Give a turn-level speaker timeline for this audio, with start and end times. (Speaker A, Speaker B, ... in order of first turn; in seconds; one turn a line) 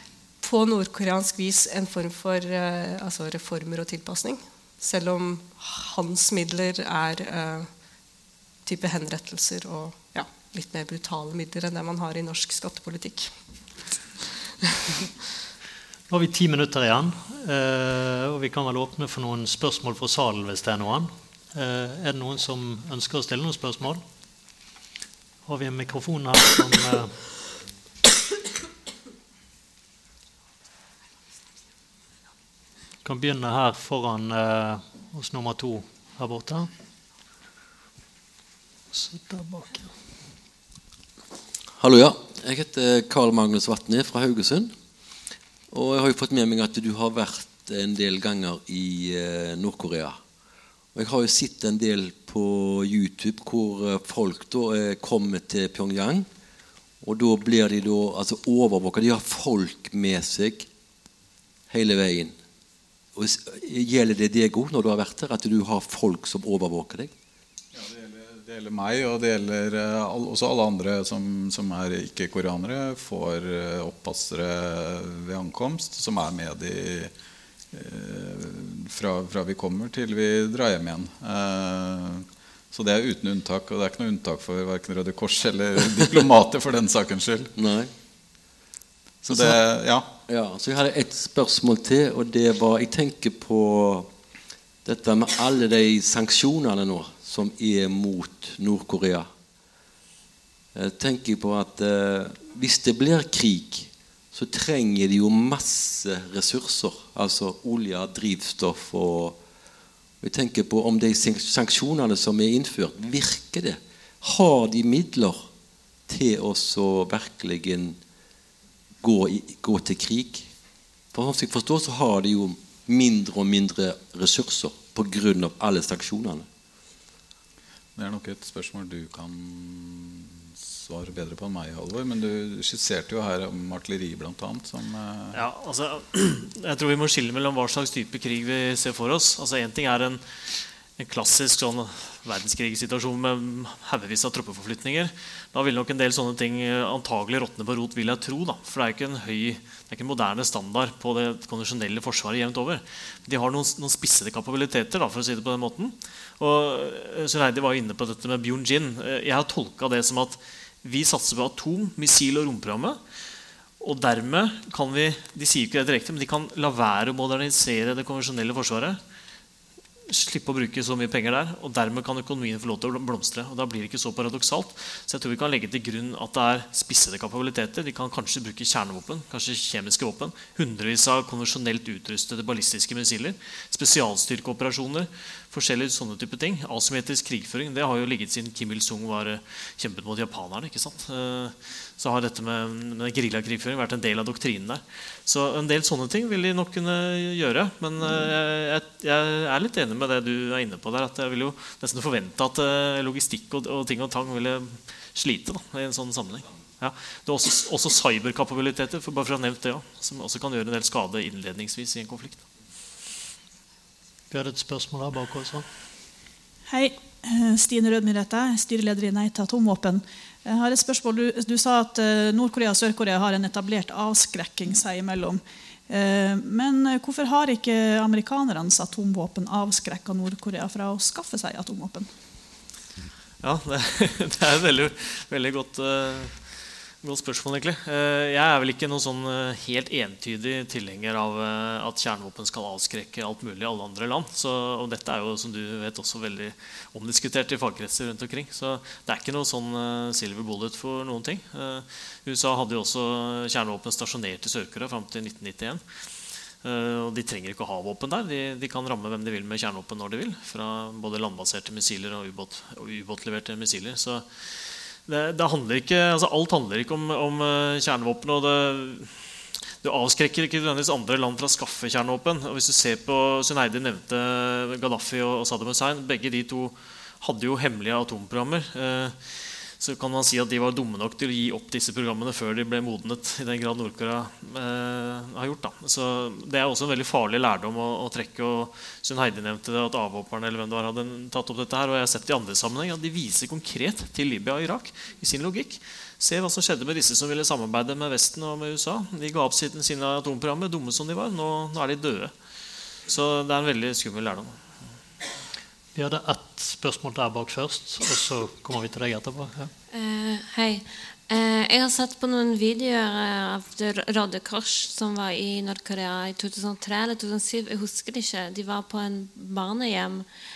Speaker A: 0.4-7.7
Speaker A: 8.7-13.3
Speaker B: 16.1-24.0
Speaker B: 25.5-27.1
Speaker B: 33.0-36.7
Speaker B: 38.9-39.9
Speaker C: 41.8-44.7
Speaker C: 45.7-50.2
Speaker C: 51.0-56.3
Speaker C: 57.0-60.7
Speaker C: 61.7-62.4
Speaker C: 63.1-67.1
Speaker D: 67.7-77.1
Speaker D: 77.7-87.5
Speaker C: 87.6-87.9
Speaker D: 89.2-90.1
Speaker C: 90.3-94.1
Speaker C: 94.8-99.3
Speaker C: 100.8-109.4
Speaker C: 110.2-115.5
Speaker C: 116.1-118.0
Speaker C: 119.0-120.5
Speaker C: 121.1-126.5
Speaker D: 128.0-135.4
Speaker E: 135.3-140.2
Speaker E: 141.0-163.0
Speaker E: 163.8-169.0
Speaker E: 170.1-212.4
Speaker B: 214.3-215.7
Speaker F: 216.7-232.1
Speaker E: 233.4-255.8
Speaker E: 256.6-269.3
Speaker E: 269.8-302.3
Speaker E: 303.1-304.6
Speaker B: 305.9-309.7
Speaker G: 309.9-320.3